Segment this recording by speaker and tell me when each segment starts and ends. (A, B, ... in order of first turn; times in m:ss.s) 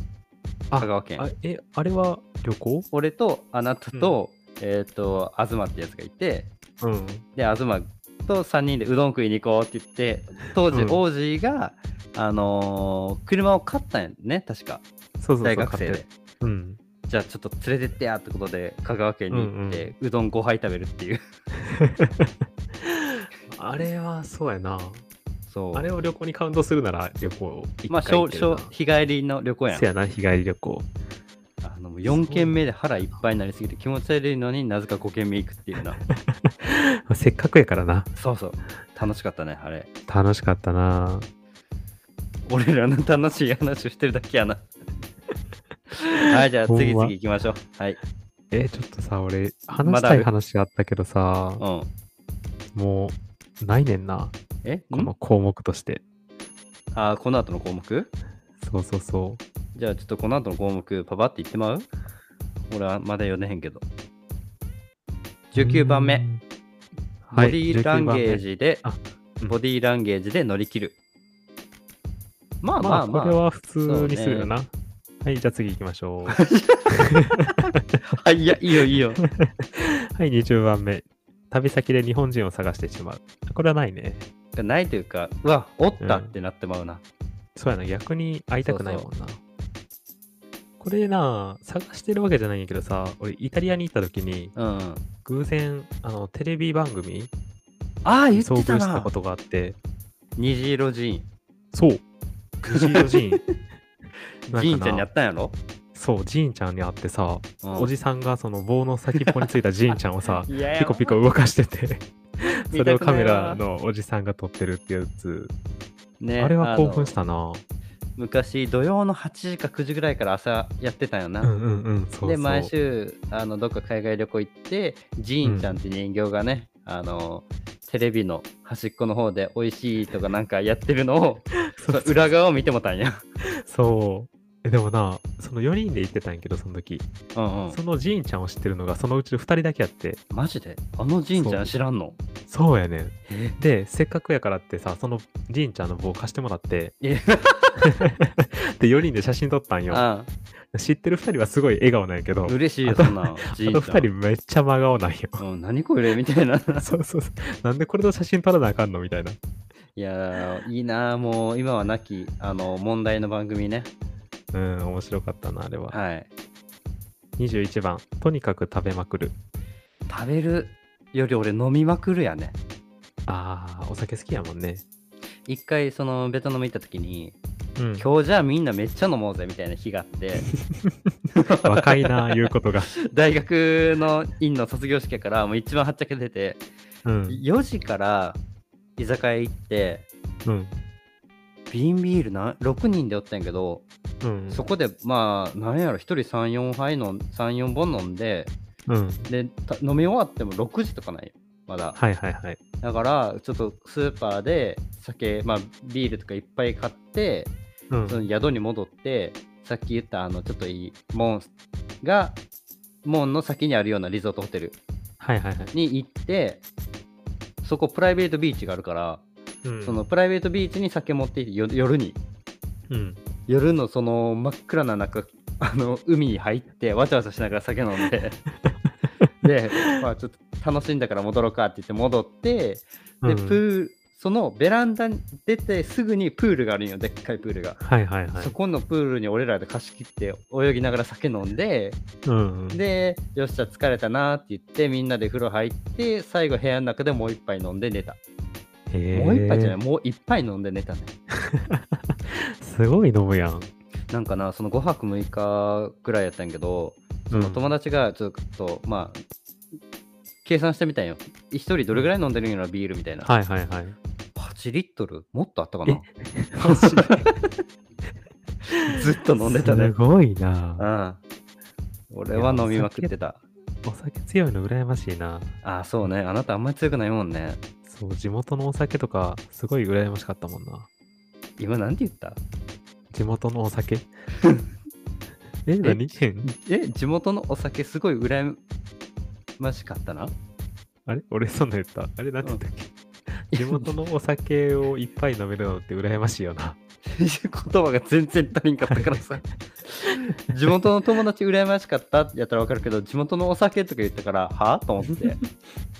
0:00.7-0:02.9 A
0:00.8-0:01.3 B
0:02.9-0:06.5 B
0:06.8-0:07.2 A
0:07.4-0:14.8 B
0:10.7-0:11.0 A
0:15.2-0:16.8 A
0:15.4-0:16.1 B
0:17.1-0:21.2 B
0:19.3-0:19.9 A
0:21.7-0:25.0 A
0:25.5-0:25.9 B
0:25.7-0:28.7 A
0:27.9-0:29.9 B
0:29.7-0:30.9 A
0:31.6-0:36.0 B
0:32.0-0:32.6 A
0:36.1-0:38.1 A
0:38.2-0:39.9 B
0:40.1-0:41.3 A
0:42.5-0:44.6 B
0:46.0-0:47.1 A
0:46.2-0:48.0 B
0:48.5-0:51.6 A
0:49.8-0:50.3 B
0:51.6-0:51.9 B
0:52.7-0:54.3 A
0:54.6-0:55.1 B
0:54.9-0:56.0 A
0:56.9-0:58.1 B
0:58.6-0:59.4 A
0:59.7-1:01.9 B
1:02.7-1:03.8 B
1:05.5-1:06.2 B
1:05.5-1:06.4 A
1:07.2-1:09.6 A
1:07.3-1:08.8 B
1:09.5-1:11.0 B
1:12.6-1:14.5 B
1:12.8-1:14.7 A
1:15.2-1:17.8 A
1:16.3-1:17.0 B
1:17.7-1:19.2 B
1:19.2-1:24.2 A
1:24.5-1:27.0 B
1:26.0-1:26.3 A
1:27.6-1:29.4 A
1:28.6-1:29.0 B
1:30.8-1:34.5 A
1:34.6-1:35.0 B
1:35.2-1:37.3 A
1:38.0-1:39.1 B
1:38.3-1:39.8 A
1:40.4-1:41.3 B
1:41.7-1:42.0 A
1:42.6-1:43.4 A
1:42.7-1:43.4 B
1:44.5-1:45.1 A
1:44.5-1:45.6 B
1:45.9-1:55.5 A
1:47.6-1:47.9 B
1:49.2-1:49.4 B
1:50.5-1:51.2 B
1:52.7-1:53.6 B
1:56.2-1:57.2 B
1:56.4-1:57.6 A
1:58.2-2:01.5 B
2:01.4-2:02.7 A
2:02.2-2:13.2 B
2:05.4-2:05.8 A
2:11.7-2:12.1 A
2:13.6-2:17.1 A
2:17.3-2:17.8 B
2:17.7-2:20.2 A
2:20.3-2:22.2 B
2:21.3-2:21.6 A
2:22.5-2:26.9 A
2:23.3-2:23.6 B
2:27.0-2:28.0 B
2:27.8-2:30.0 A
2:29.9-2:30.3 B
2:30.7-2:35.4 A
2:32.4-2:34.1 B
2:35.4-2:36.8 B
2:36.8-2:39.4 A
2:40.0-2:43.9 B
2:44.5-2:46.0 A
2:45.9-2:46.3 B
2:47.4-2:49.3 A
2:50.1-2:52.6 B
2:53.3-2:54.8 A
2:55.5-2:57.4 B
2:57.8-2:58.1 A
2:58.0-3:00.5 B
3:00.6-3:00.9 A
3:01.3-3:02.4 B
3:01.6-3:02.9 A
3:03.0-3:06.6 B
3:07.0-3:07.4 A
3:07.3-3:08.4 B
3:09.0-3:10.0 B
3:10.4-3:10.8 A
3:11.7-3:13.8 B
3:14.2-3:14.6 A
3:14.5-3:18.5 B
3:18.9-3:19.3 A
3:19.3-3:22.0 B
3:22.0-3:22.6 A
3:22.8-3:27.5 B
3:27.9-3:28.2 A
3:28.0-3:31.5 B
3:32.0-3:32.4 B
3:33.0-3:34.8 B
3:35.2-3:35.7 A
3:35.7-3:36.6 B
3:37.6-3:39.2 B
3:39.6-3:40.0 A
3:39.8-3:42.2 B
3:42.9-3:43.2 A
3:43.5-3:48.4 B
3:48.6-3:49.3 A
3:49.4-3:57.8 B
3:53.2-3:53.6 A
3:57.8-3:58.5 A
3:58.3-4:02.0 B
4:02.2-4:02.8 A
4:02.7-4:08.2 B
4:08.9-4:09.8 A
4:09.1-4:11.1 B
4:11.4-4:13.7 A
4:14.1-4:19.2 B
4:17.3-4:17.7 A
4:20.4-4:23.3 B
4:23.2-4:24.0 A
4:24.4-4:26.1 B
4:25.8-4:27.3 A
4:26.6-4:27.4 B
4:28.7-4:29.9 B
4:28.8-4:30.9 A
4:30.8-4:31.2 B
4:32.1-4:33.4 B
4:32.3-4:33.1 A
4:33.8-4:35.5 A
4:35.6-4:37.6 B
4:37.8-4:40.9 A
4:41.6-4:42.4 B
4:43.1-4:44.1 A
4:45.6-4:46.5 A
4:45.8-4:48.6 B
4:49.6-4:50.3 B
4:51.0-4:56.8 A
4:53.5-4:53.9 B
4:57.1-5:05.4 B
4:58.9-4:59.2 A